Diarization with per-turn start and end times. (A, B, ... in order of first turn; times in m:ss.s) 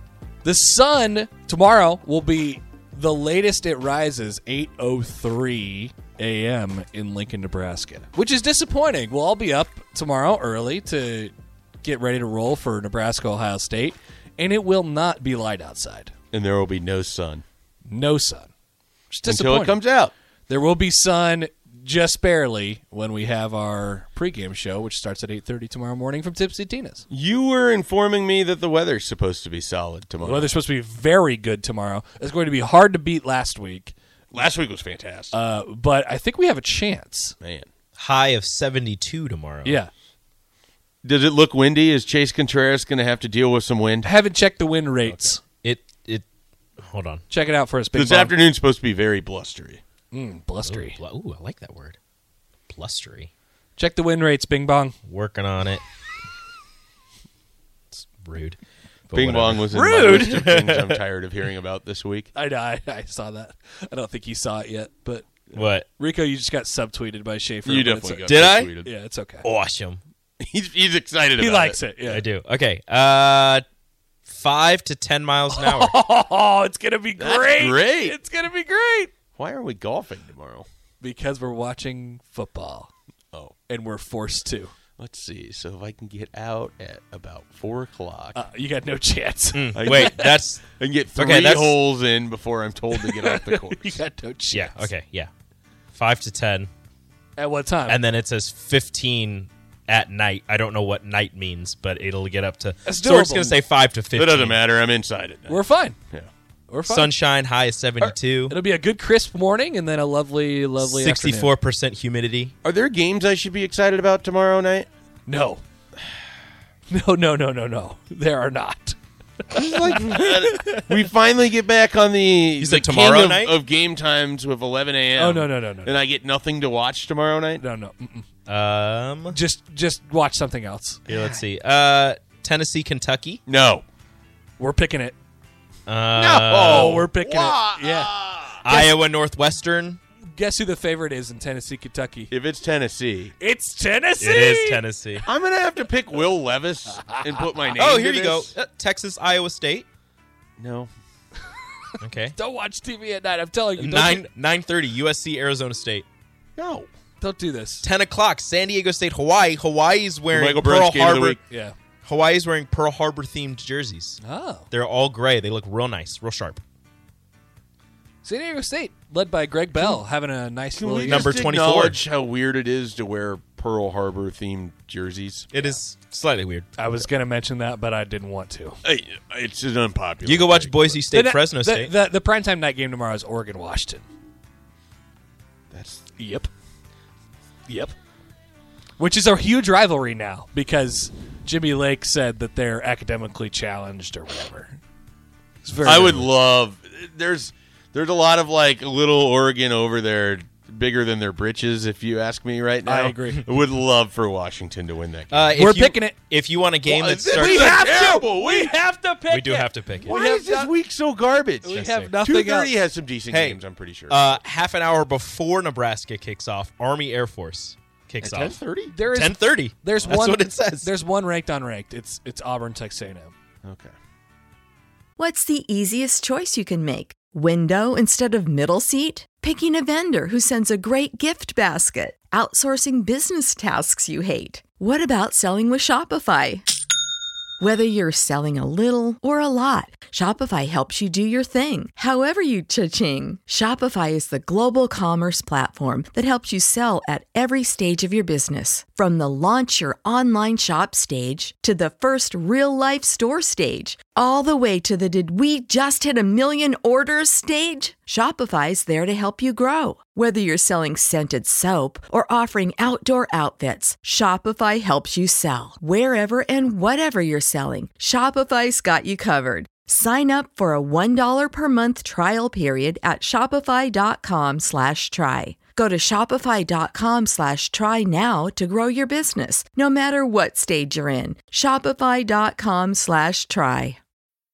0:00.4-0:16.1 A
0:16.3-0:17.4 B
0:17.9-0:18.5 A
0:19.1-0:19.8 A
0:19.2-0:20.1 B
0:20.5-0:27.0 A
0:27.1-0:30.5 B
0:30.2-0:33.9 A
0:34.3-0:35.3 B
0:35.3-0:37.4 A
0:37.4-0:37.7 B
0:38.0-0:39.8 C
0:39.6-0:39.9 A
0:41.0-0:44.1 B
0:44.0-0:45.4 A
0:45.4-0:46.2 C
0:46.8-0:47.2 C
0:47.3-0:48.3 A
0:47.9-0:49.8 B
0:50.1-0:51.0 A
0:50.6-0:52.0 C
0:52.7-0:53.3 C
0:53.8-0:54.9 A
0:55.0-0:55.8 C
0:57.9-1:01.0 C
0:59.1-1:02.3 B
0:59.7-1:00.4 A
1:02.3-1:05.2 A
1:05.6-1:05.9 C
1:05.9-1:08.3 A
1:07.6-1:08.9 B
1:08.2-1:08.7 C
1:08.8-1:09.4 A
1:09.4-1:10.0 C
1:10.4-1:12.2 B
1:11.4-1:12.2 A
1:12.1-1:13.6 C
1:14.3-1:16.0 C
1:15.5-1:19.1 A
1:17.2-1:18.1 B
1:19.3-1:20.6 B
1:21.0-1:22.9 A
1:23.7-1:24.7 A
1:25.0-1:28.4 B
1:28.3-1:30.4 A
1:29.5-1:30.6 C
1:29.7-1:34.0 B
1:31.2-1:31.8 C
1:32.9-1:34.9 A
1:34.5-1:35.3 C
1:35.9-1:36.7 C
1:37.4-1:38.0 A
1:37.9-1:44.6 C
1:42.8-1:43.6 A
1:44.1-1:46.3 B
1:45.5-1:46.0 A
1:46.7-1:47.1 A
1:46.9-1:48.6 C
1:48.0-1:51.5 A
1:50.8-1:52.5 C
1:52.6-1:54.9 B
1:55.3-1:55.6 A
1:56.9-1:59.0 A
1:59.5-2:07.6 B
2:00.0-2:00.8 A
2:02.6-2:03.5 C
2:05.1-2:06.0 A
2:07.6-2:08.2 A
2:08.4-2:09.4 C
2:09.3-2:11.0 A
2:11.1-2:13.4 C
2:13.4-2:13.8 B
2:14.6-2:15.1 A
2:15.9-2:17.0 C
2:16.2-2:18.6 B
2:16.5-2:18.1 A
2:18.6-2:20.0 C
2:18.7-2:18.9 A
2:20.2-2:22.3 A
2:22.3-2:23.3 B
2:23.4-2:24.8 A
2:24.2-2:25.2 C
2:25.2-2:28.5 B
2:27.8-2:29.8 C
2:30.6-2:30.9 B
2:32.0-2:32.4 C
2:32.3-2:34.3 A
2:33.8-2:36.0 C
2:36.6-2:36.9 B
2:37.2-2:37.8 A
2:37.8-2:41.4 C
2:40.3-2:41.4 B
2:41.5-2:41.7 A
2:42.0-2:44.2 C
2:44.2-2:44.7 A
2:44.7-2:46.6 C
2:48.2-2:51.3 A
2:50.8-2:55.7 B
2:51.0-2:52.0 C
2:55.5-2:56.7 C
2:56.8-2:58.8 A
2:58.8-3:01.0 B
3:00.2-3:01.9 C
3:01.1-3:04.0 A
3:05.7-3:06.0 B
3:06.2-3:06.5 A
3:07.7-3:07.9 A
3:09.0-3:14.8 A
3:15.6-3:16.3 A
3:15.8-3:25.5 B
3:22.8-3:23.4 A
3:25.3-3:27.8 C
3:25.6-3:26.2 A
3:26.8-3:28.8 B
3:27.3-3:30.7 A
3:29.3-3:30.2 C
3:30.0-3:34.4 B
3:31.6-3:32.8 A
3:31.7-3:32.1 C
3:33.3-3:40.9 C
3:38.2-3:38.9 B
3:38.9-3:43.3 A
3:43.6-3:43.9 B
3:45.2-3:56.6 D
3:57.6-4:44.0 D